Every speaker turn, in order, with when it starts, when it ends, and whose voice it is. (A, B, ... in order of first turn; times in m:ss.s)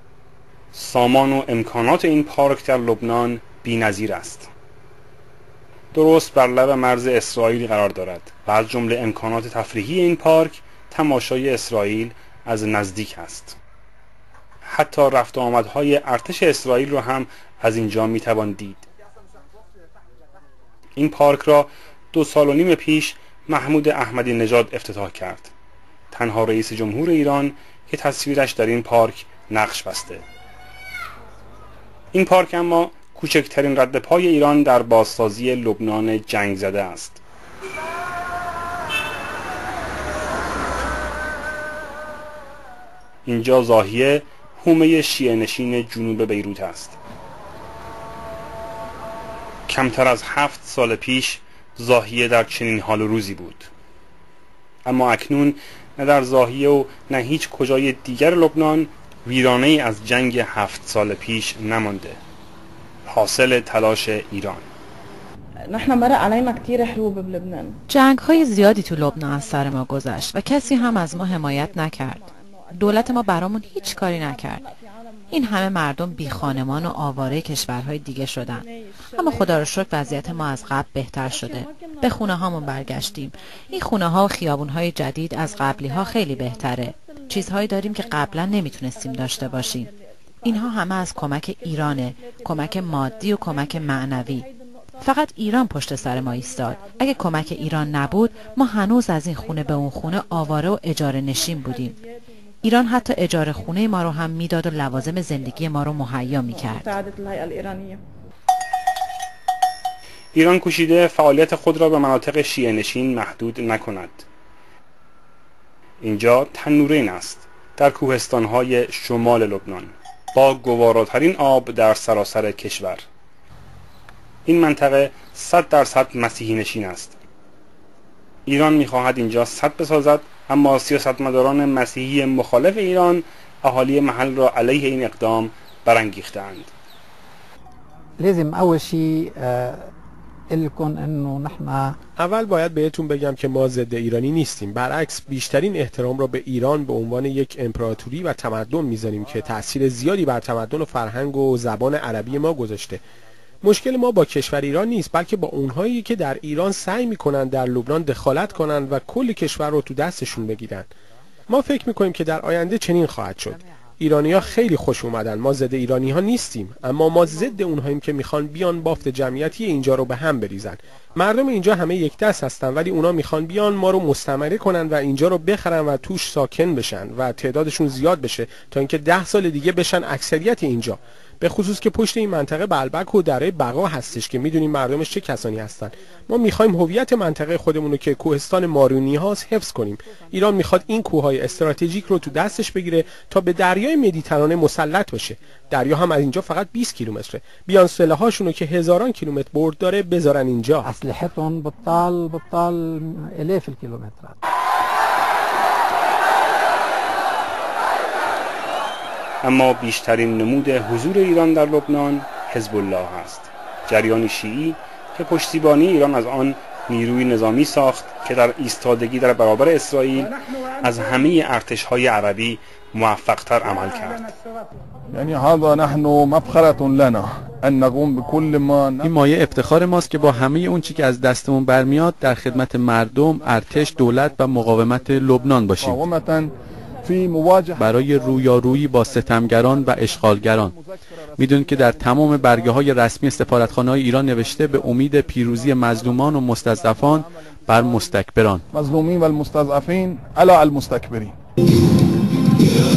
0:00.7-0:04.5 A
0:05.9-0:13.6 A
0:14.7-0:18.9 A
0:21.0-0:25.5 A
0:26.1-0:30.2 A
0:32.1-0:37.2 A
0:43.3-0:47.0 A
0:49.7-0:53.7 A
0:54.8-1:02.2 A
1:03.1-1:04.6 A
1:05.7-1:07.8 B
1:07.9-1:14.7 C
1:11.0-1:13.2 B
1:14.2-1:14.6 B
1:15.3-1:29.9 C
1:30.4-1:42.0 C
1:42.6-1:47.0 C
1:46.4-1:48.0 B
1:50.4-1:54.2 A
1:56.0-2:03.0 A
2:04.5-2:07.2 A
2:08.5-2:16.7 A
2:18.2-2:19.9 D
2:20.5-2:22.0 D
2:22.2-2:33.0 E
2:33.6-2:40.9 E
2:41.5-3:20.9 E
3:20.8-3:24.4 D
3:29.4-3:44.3 A
3:45.1-3:49.1 F
3:49.0-3:56.0 G
3:55.8-3:56.5 F
3:57.0-3:57.8 F
3:57.8-4:00.8 G
4:01.4-4:08.6 G
4:08.7-4:11.3 F